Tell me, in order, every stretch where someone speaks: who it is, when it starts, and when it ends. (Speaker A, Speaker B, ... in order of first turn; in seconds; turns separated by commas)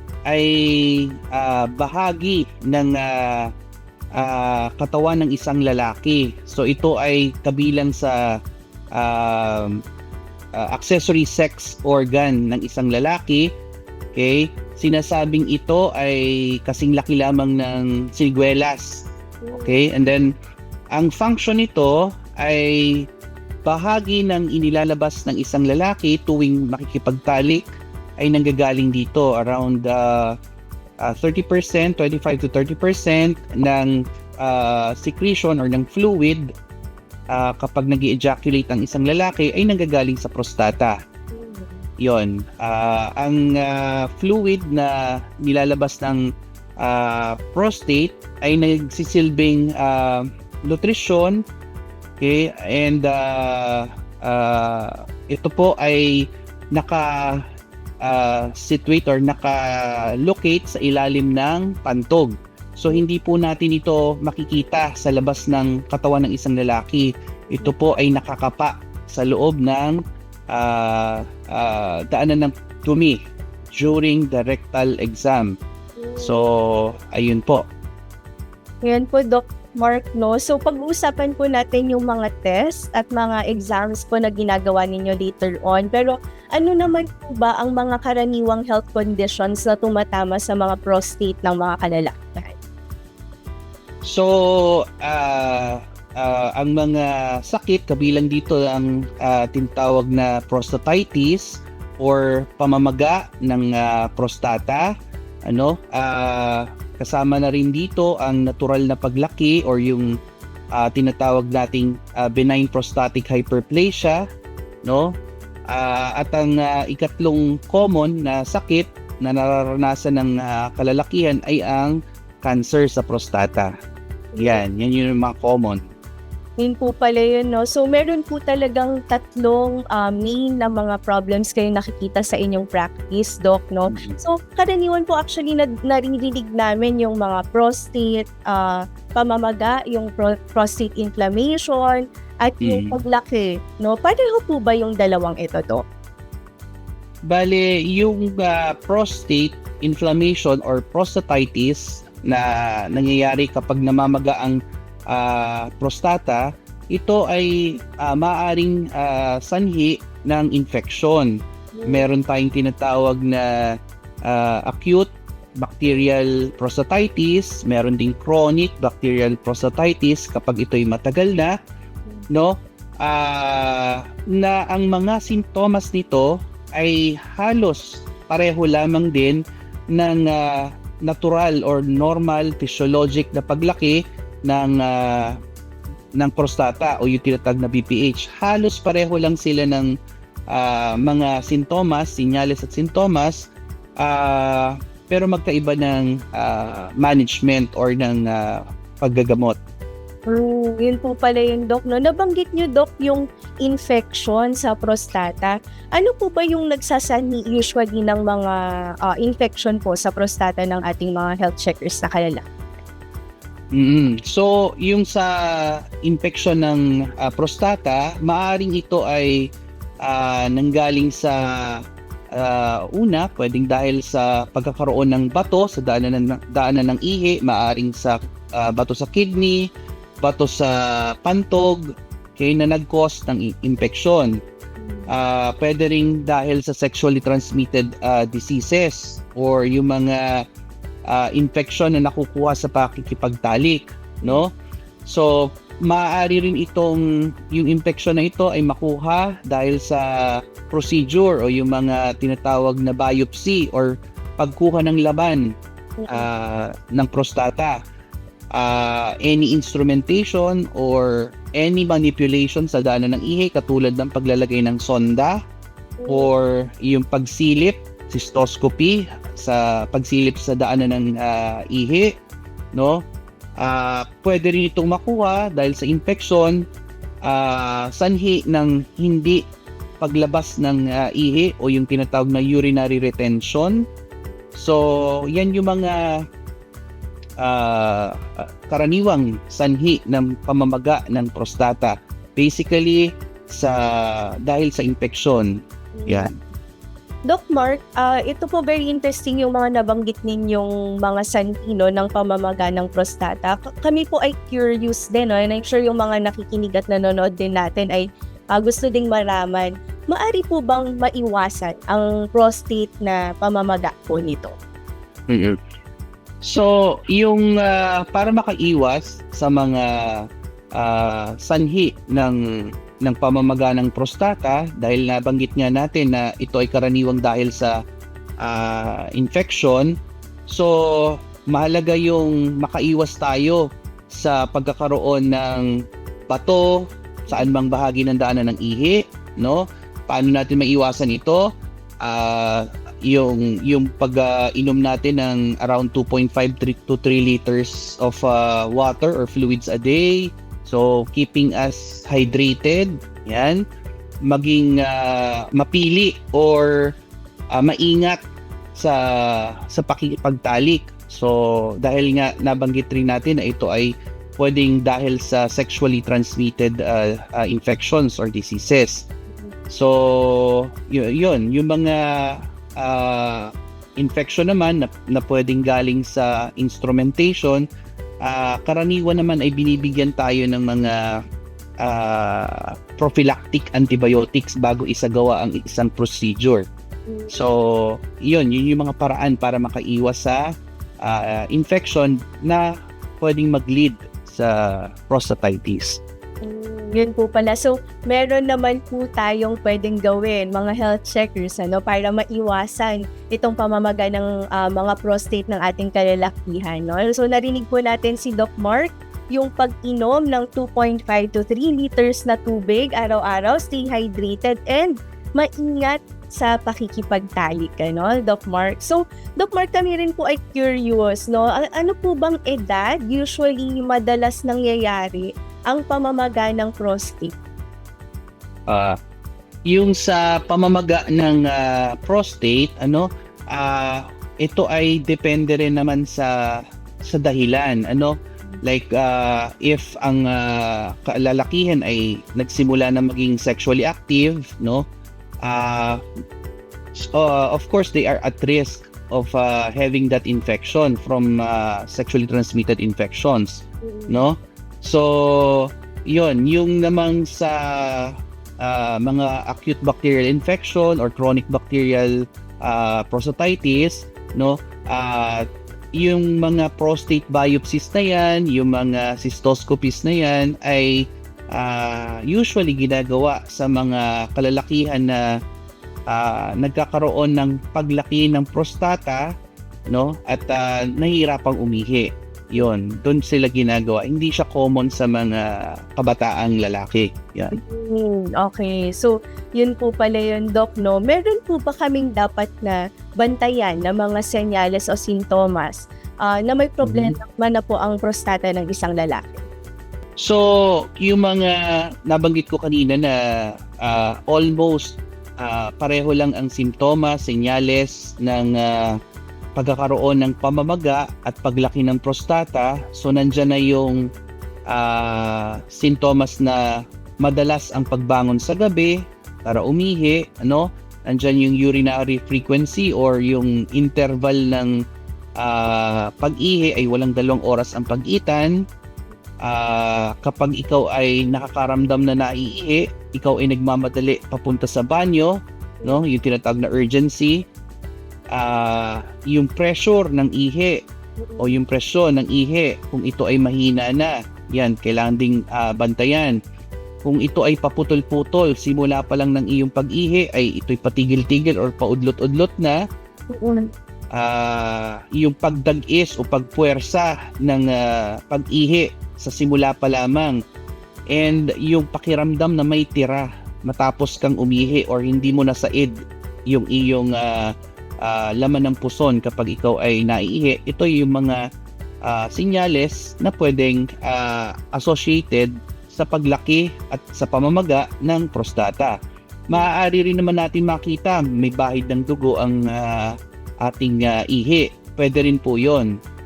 Speaker A: 0.3-3.5, Speaker A: 4.2-8.2, Speaker A: 9.0-9.8, Speaker A: 10.6-13.5, Speaker A: 14.1-20.3, Speaker B: 19.4-19.8, Speaker A: 21.0-23.1, Speaker A: 23.7-30.3, Speaker A: 31.0-36.5, Speaker A: 37.3-41.0, Speaker B: 41.3-41.8, Speaker A: 42.0-46.2, Speaker A: 46.8-51.4, Speaker A: 52.2-56.2, Speaker A: 56.7-57.4, Speaker A: 58.0-70.0, Speaker A: 70.5-73.2, Speaker A: 73.7-75.5, Speaker B: 76.0-76.4, Speaker A: 76.2-77.6, Speaker B: 78.8-92.6, Speaker A: 94.0-104.9, Speaker A: 105.5-110.1, Speaker A: 110.8-114.2, Speaker A: 114.8-115.1, Speaker A: 115.7-123.7, Speaker B: 124.4-124.6, Speaker A: 124.4-125.8, Speaker B: 126.6-145.9, Speaker A: 133.9-134.2, Speaker A: 142.6-143.0, Speaker A: 147.3-154.6, Speaker A: 155.1-161.3, Speaker B: 161.8-162.1, Speaker A: 161.9-163.5, Speaker A: 164.3-171.5, Speaker A: 172.3-179.4, Speaker A: 179.9-185.4, Speaker A: 186.2-189.9, Speaker A: 190.5-193.5, Speaker A: 194.0-199.6, Speaker B: 200.3-212.5, Speaker A: 213.7-219.4, Speaker A: 220.0-221.8, Speaker A: 222.3-229.6, Speaker A: 230.2-231.8, Speaker A: 232.4-234.3, Speaker B: 234.8-235.2, Speaker A: 235.1-240.4, Speaker A: 241.1-244.5, Speaker A: 245.9-247.0, Speaker A: 247.5-250.1, Speaker A: 250.7-255.5, Speaker B: 256.0-256.3, Speaker A: 256.1-257.8, Speaker A: 258.6-265.4, Speaker B: 266.0-266.3, Speaker A: 266.1-272.1, Speaker A: 273.6-276.6, Speaker A: 277.3-279.4, Speaker A: 280.0-283.8, Speaker A: 284.6-286.2, Speaker A: 287.4-295.5, Speaker B: 296.0-296.3, Speaker A: 296.1-296.3, Speaker B: 297.3-314.6, Speaker A: 315.3-315.6, Speaker A: 316.4-320.2, Speaker A: 320.8-322.4, Speaker A: 323.0-327.7, Speaker A: 328.4-329.9, Speaker A: 330.5-335.7, Speaker A: 336.3-336.8, Speaker A: 337.3-341.4, Speaker A: 342.0-353.6, Speaker A: 354.3-356.7, Speaker A: 357.5-358.2, Speaker A: 358.8-369.1, Speaker A: 369.7-377.6, Speaker A: 378.2-381.1, Speaker A: 381.8-386.6, Speaker B: 387.1-387.4, Speaker A: 387.3-390.4, Speaker A: 391.0-392.6, Speaker A: 393.2-396.0, Speaker B: 396.4-427.4, Speaker A: 428.7-429.0, Speaker A: 429.7-436.3, Speaker A: 437.0-444.8, Speaker A: 445.4-446.0, Speaker A: 446.9-465.4, Speaker B: 453.9-454.3, Speaker A: 466.0-470.9, Speaker A: 471.5-475.2, Speaker A: 476.1-479.2, Speaker A: 479.9-487.6, Speaker B: 487.6-499.5, Speaker A: 496.8-497.2, Speaker A: 500.2-503.1, Speaker A: 503.8-509.0, Speaker A: 509.6-514.0, Speaker A: 514.7-516.6, Speaker A: 517.2-518.9, Speaker A: 519.5-524.7, Speaker A: 525.4-528.5, Speaker A: 529.4-535.3, Speaker A: 535.9-537.4, Speaker A: 538.3-540.8, Speaker B: 541.2-541.6, Speaker A: 541.4-546.4, Speaker A: 547.0-552.8, Speaker B: 553.3-553.7, Speaker A: 554.1-560.4, Speaker A: 561.1-566.0, Speaker A: 566.5-567.5, Speaker A: 568.0-571.4, Speaker A: 572.1-579.0, Speaker A: 579.5-585.9